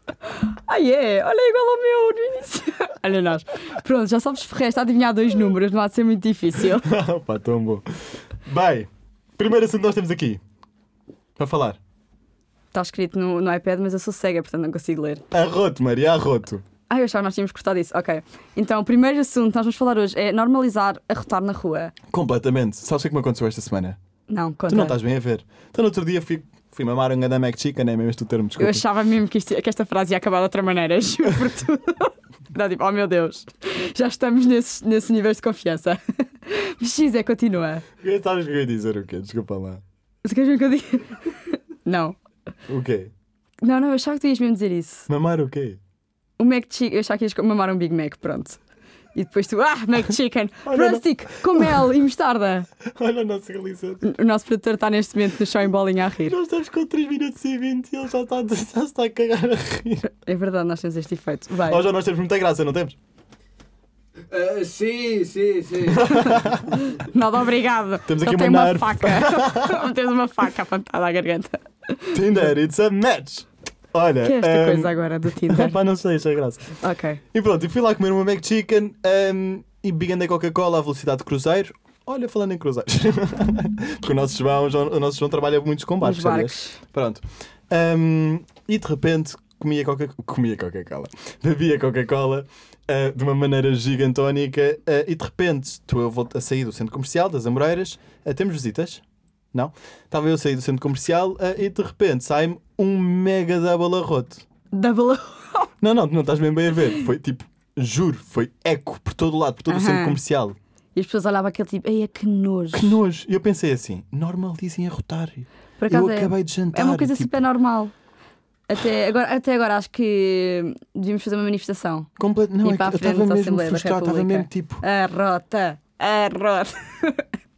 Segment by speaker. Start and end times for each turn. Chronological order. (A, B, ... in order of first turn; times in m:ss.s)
0:00.4-0:06.9 A
0:06.7-0:07.8 B
0:08.4-0:10.4 B
0:11.4-0:11.8 B
0:12.7-0:15.2 A
0:15.3-0:16.6 B
0:16.9-0:22.0 A
0:22.1-0:24.0 B
0:24.3-0:25.0 A
0:24.7-0:28.8 B
0:28.6-0:37.8 A
0:38.0-0:39.8 B
0:40.2-0:42.2 A
0:42.7-0:43.1 B
0:43.6-0:45.1 A
0:45.1-0:45.8 B
0:46.4-0:48.6 A
0:49.2-0:52.7 A
0:50.6-0:51.9 B
0:52.9-0:54.1 B
0:54.0-0:56.4 A
0:56.2-1:00.1 B
1:00.1-1:01.8 A
1:01.7-1:03.0 B
1:04.3-1:06.5 C
1:05.9-1:06.7 B
1:06.8-1:12.4 A
1:08.1-1:09.9 B
1:12.1-1:16.8 B
1:14.2-1:15.8 A
1:16.8-1:17.2 A
1:17.3-1:44.4 B
1:26.0-1:26.8 A
1:44.7-1:45.7 A
1:45.8-1:50.6 B
1:49.7-1:50.2 A
1:51.0-1:53.0 A
1:52.7-1:57.3 B
1:55.8-1:57.9 A
1:58.7-2:02.1 A
2:02.2-2:04.8 B
2:02.6-2:07.3 A